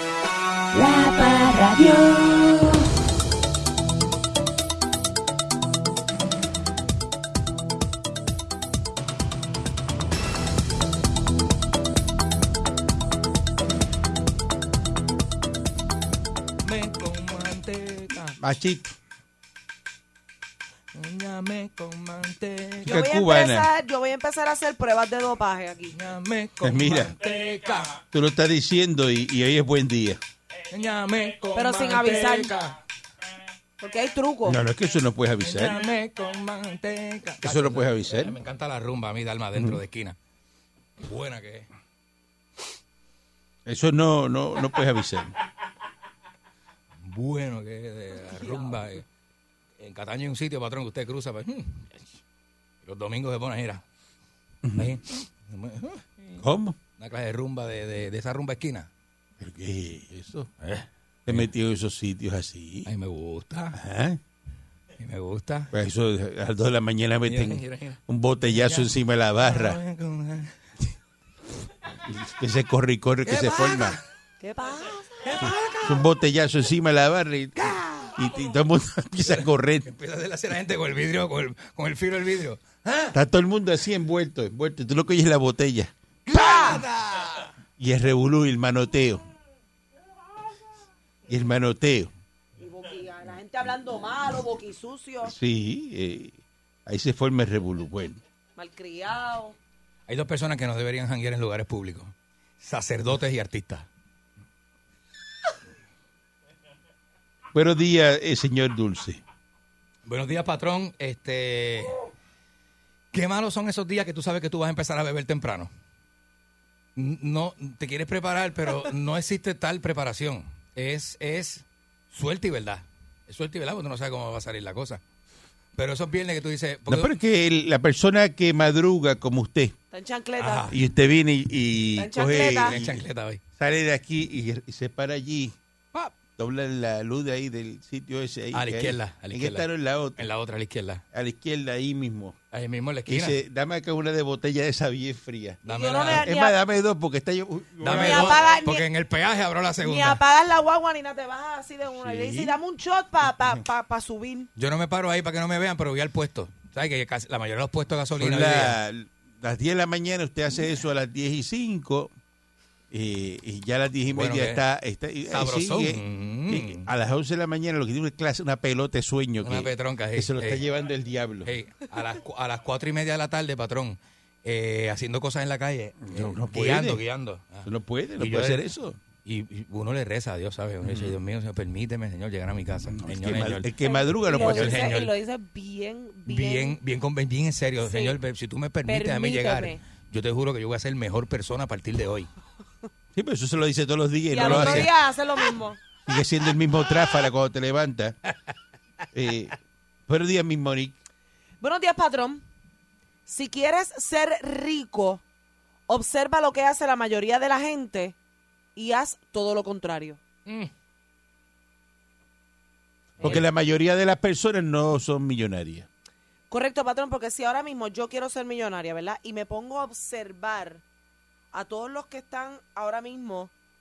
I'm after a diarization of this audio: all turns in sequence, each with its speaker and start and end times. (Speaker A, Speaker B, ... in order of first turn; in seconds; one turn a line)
Speaker A: 0.7-2.8
Speaker B: 16.6-18.4
Speaker C: 18.4-18.9
Speaker B: 20.9-23.0
Speaker C: 22.8-23.7
Speaker D: 22.9-25.9
Speaker B: 25.9-28.0
Speaker C: 26.6-27.1
Speaker C: 28.1-30.2
Speaker B: 30.7-32.8
Speaker D: 31.6-32.5
Speaker D: 33.8-34.6
Speaker C: 34.5-35.8
Speaker B: 35.4-40.2
Speaker C: 37.4-38.4
Speaker B: 41.0-41.7
Speaker C: 43.7-45.4
Speaker B: 47.0-49.0
Speaker B: 49.8-52.0
Speaker B: 52.8-53.8
Speaker C: 54.6-55.0
Speaker B: 54.8-56.4
Speaker C: 56.4-56.8
Speaker B: 57.0-58.9
Speaker C: 59.4-60.5
Speaker B: 60.6-61.5
Speaker C: 61.3-62.9
Speaker B: 62.9-63.8
Speaker C: 63.7-64.2
Speaker B: 65.0-65.7
Speaker C: 65.7-69.8
Speaker B: 67.3-68.9
Speaker B: 69.4-70.5
Speaker C: 72.1-74.0
Speaker B: 73.3-74.0
Speaker D: 74.4-75.4
Speaker B: 75.2-76.1
Speaker C: 75.8-79.9
Speaker D: 77.6-78.1
Speaker B: 79.3-83.2
Speaker C: 83.1-85.9
Speaker B: 86.3-87.5
Speaker D: 86.3-86.8
Speaker C: 87.8-89.2
Speaker C: 91.3-92.1
Speaker D: 92.6-95.3
Speaker C: 95.2-98.2
Speaker D: 98.6-99.6
Speaker B: 100.1-103.9
Speaker C: 107.5-109.2
Speaker B: 110.1-112.0
Speaker B: 113.1-115.7
Speaker B: 117.0-125.0
Speaker B: 125.8-127.1
Speaker C: 126.9-129.8
Speaker D: 129.9-130.7
Speaker B: 130.4-130.8
Speaker C: 130.7-133.0
Speaker D: 132.0-132.7
Speaker B: 132.4-133.4
Speaker C: 133.6-135.6
Speaker C: 136.4-140.2
Speaker B: 138.5-139.7
Speaker B: 140.2-141.0
Speaker C: 141.1-142.4
Speaker B: 142.5-143.4
Speaker C: 143.1-148.4
Speaker B: 145.6-146.3
Speaker D: 145.7-146.6
Speaker B: 147.8-150.2
Speaker D: 147.9-148.8
Speaker D: 149.8-154.5
Speaker C: 152.0-152.6
Speaker B: 154.6-158.8
Speaker C: 158.2-162.1
Speaker C: 162.9-171.5
Speaker B: 164.1-164.6
Speaker B: 165.3-166.9
Speaker B: 169.4-170.6
Speaker B: 171.4-178.7
Speaker C: 176.1-177.0
Speaker C: 177.7-179.0
Speaker B: 179.2-183.7
Speaker C: 180.8-181.2
Speaker C: 182.9-184.9
Speaker D: 183.8-186.8
Speaker B: 184.3-185.1
Speaker B: 186.3-192.3
Speaker D: 187.8-188.2
Speaker D: 188.9-189.8
Speaker C: 193.1-194.9
Speaker D: 194.3-195.8
Speaker B: 194.4-194.9
Speaker C: 196.1-198.2
Speaker C: 199.1-199.6
Speaker C: 200.1-201.0
Speaker D: 201.6-202.4
Speaker D: 203.3-205.2
Speaker D: 205.9-208.2
Speaker D: 208.8-210.2
Speaker B: 210.5-210.7
Speaker C: 213.2-215.9
Speaker D: 216.5-220.8
Speaker D: 221.5-223.5